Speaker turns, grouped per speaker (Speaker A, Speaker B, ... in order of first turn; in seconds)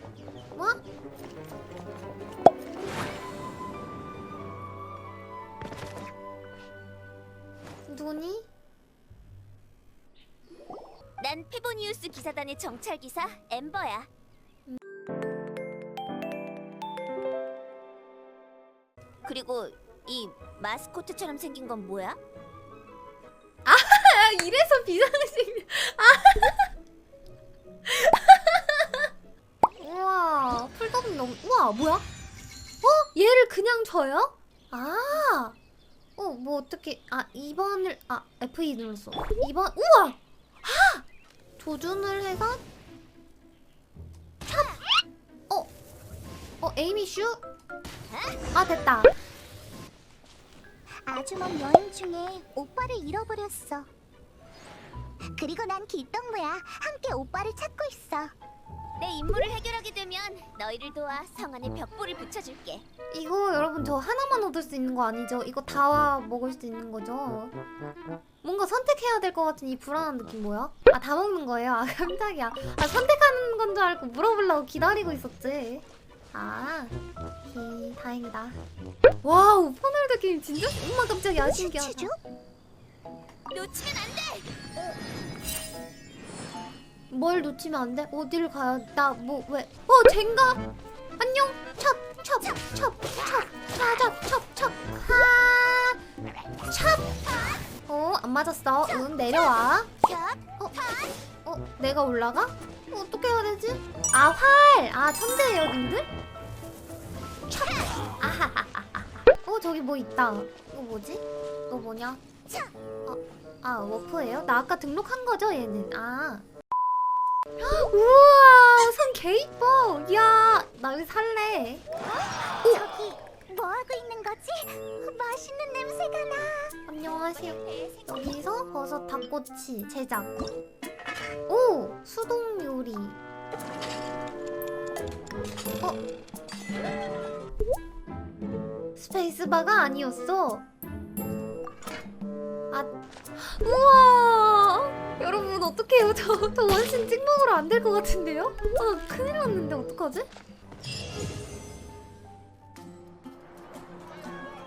Speaker A: 7.9-8.5, 23.7-26.7, 27.9-29.1, 29.8-32.0, 32.8-35.5, 36.2-41.0, 41.6-42.6, 46.6-47.4, 48.5-49.1, 63.1-67.5, 68.4-78.6, 79.2-82.1, 87.1-90.6, 91.2-96.0, 96.7-97.1, 97.9-99.9, 101.4-106.1, 108.2-112.2, 113.1-116.5, 117.6-121.8, 126.9-130.3, 131.5-133.2, 139.0-140.7, 142.7-150.3
Speaker B: 11.2-14.1, 19.2-22.2, 48.1-48.4, 59.0-62.8, 83.5-84.5, 127.2-128.3
Speaker C: 51.0-53.9, 55.3-58.3, 81.4-82.2, 100.0-101.0, 122.7-126.7